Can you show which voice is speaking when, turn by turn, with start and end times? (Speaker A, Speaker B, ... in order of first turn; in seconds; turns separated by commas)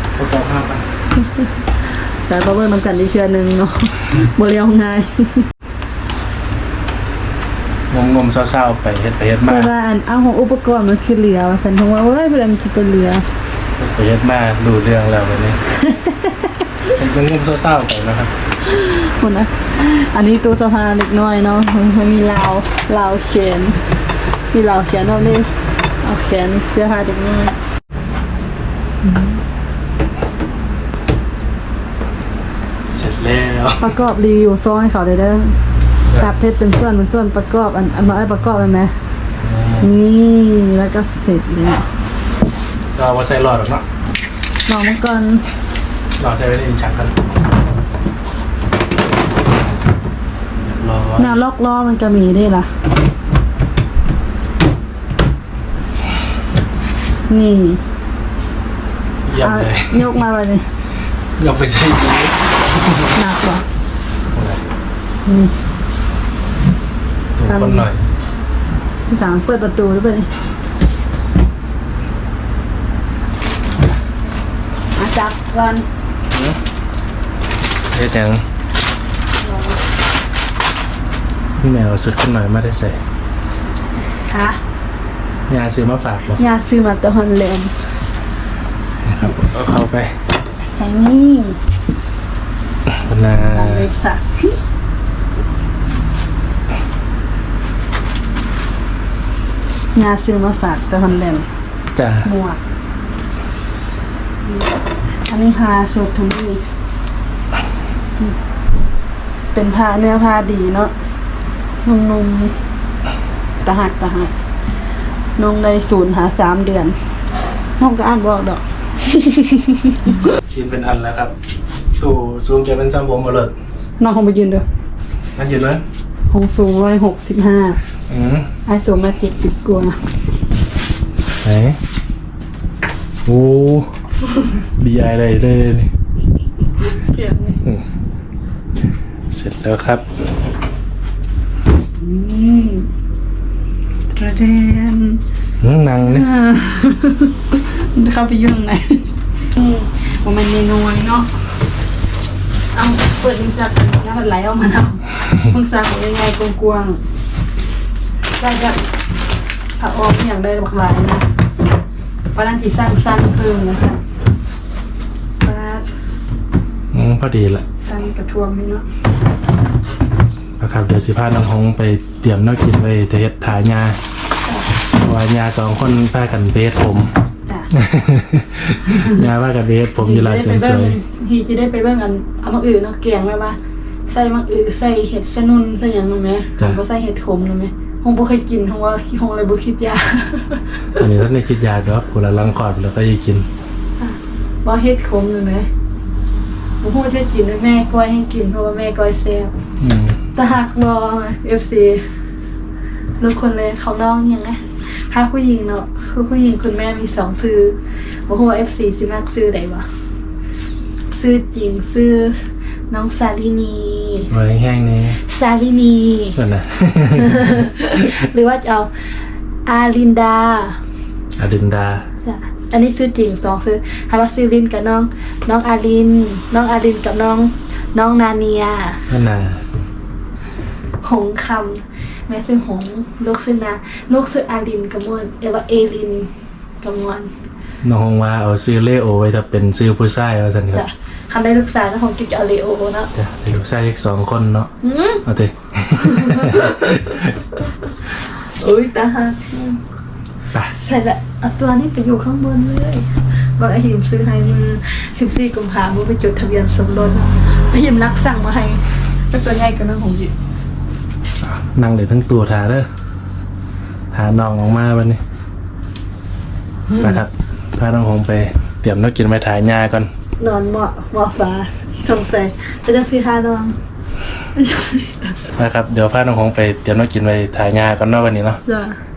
Speaker A: 0.1-0.9, Speaker B: 1.4-5.5, Speaker A: 7.9-9.7, Speaker B: 9.4-13.2, Speaker A: 13.8-15.6, Speaker B: 15.9-16.3, Speaker A: 16.9-18.3, Speaker B: 18.6-23.9, Speaker B: 24.5-27.6, Speaker B: 29.0-29.4, Speaker A: 32.9-34.0, Speaker B: 33.8-35.5, Speaker B: 36.1-38.9, Speaker A: 39.4-39.9, Speaker B: 39.8-41.9, Speaker A: 42.9-43.9, Speaker B: 44.7-45.4, Speaker A: 46.2-47.1, Speaker A: 50.6-51.4, Speaker B: 51.2-52.7, Speaker B: 57.3-57.8, Speaker A: 59.2-60.2, Speaker B: 59.4-60.6, Speaker A: 61.4-63.1, Speaker B: 63.1-63.6, Speaker A: 64.3-64.6, Speaker B: 65.2-65.5, Speaker A: 67.3-68.0, Speaker B: 67.5-67.9, Speaker B: 69.1-70.3, Speaker B: 75.0-75.8, Speaker A: 76.3-76.6, Speaker A: 77.9-78.4, Speaker B: 79.4-79.8, Speaker A: 81.6-83.0, Speaker B: 84.3-84.6, Speaker A: 85.5-86.4, Speaker B: 86.4-87.7, Speaker A: 89.0-90.1, Speaker B: 90.6-91.6, Speaker A: 92.9-93.9, Speaker B: 93.3-94.6, Speaker B: 99.9-101.5, Speaker A: 101.9-102.3, Speaker B: 102.2-102.6, Speaker B: 104.4-106.6, Speaker B: 109.5-110.9, Speaker B: 111.8-112.5, Speaker B: 113.6-114.3, Speaker B: 115.4-117.0, Speaker B: 117.8-120.3, Speaker A: 120.4-121.3, Speaker A: 122.0-123.5, Speaker B: 124.0-124.6, Speaker A: 125.4-125.8, Speaker B: 126.3-127.8, Speaker A: 128.1-128.5, Speaker B: 128.7-130.0, Speaker A: 131.4-131.8, Speaker A: 133.2-133.9, Speaker A: 134.8-135.9, Speaker B: 136.8-137.6, Speaker A: 139.3-140.1, Speaker B: 142.0-142.9, Speaker B: 144.1-145.2, Speaker A: 145.6-146.2, Speaker B: 146.0-151.3, Speaker B: 152.7-157.0, Speaker B: 158.4-158.8, Speaker B: 159.8-161.2, Speaker B: 162.3-164.0, Speaker B: 165.4-165.9, Speaker A: 166.9-167.6, Speaker B: 167.8-168.8, Speaker A: 170.6-174.0, Speaker A: 175.0-177.1, Speaker A: 177.7-181.0, Speaker B: 178.9-179.2, Speaker B: 180.0-191.1, Speaker A: 190.9-193.5, Speaker B: 194.0-195.7, Speaker B: 196.8-199.5, Speaker A: 199.8-200.2, Speaker B: 200.3-202.0, Speaker B: 203.2-209.9, Speaker B: 211.1-214.3, Speaker A: 214.3-215.2, Speaker B: 215.2-216.4, Speaker A: 216.4-217.7, Speaker B: 217.2-218.9, Speaker B: 219.7-220.8, Speaker A: 221.4-222.1, Speaker B: 222.2-229.1, Speaker A: 229.1-229.6, Speaker B: 231.0-237.3, Speaker A: 237.8-240.9, Speaker B: 240.7-243.1, Speaker A: 243.1-244.7, Speaker B: 244.8-245.2, Speaker A: 245.2-247.4, Speaker B: 246.0-247.1, Speaker B: 248.2-249.8, Speaker B: 250.7-260.3, Speaker A: 261.4-262.9, Speaker A: 264.1-265.2, Speaker B: 266.9-267.2, Speaker A: 266.9-270.1, Speaker B: 270.4-273.8, Speaker B: 274.6-275.3, Speaker A: 275.6-278.6, Speaker B: 278.6-279.0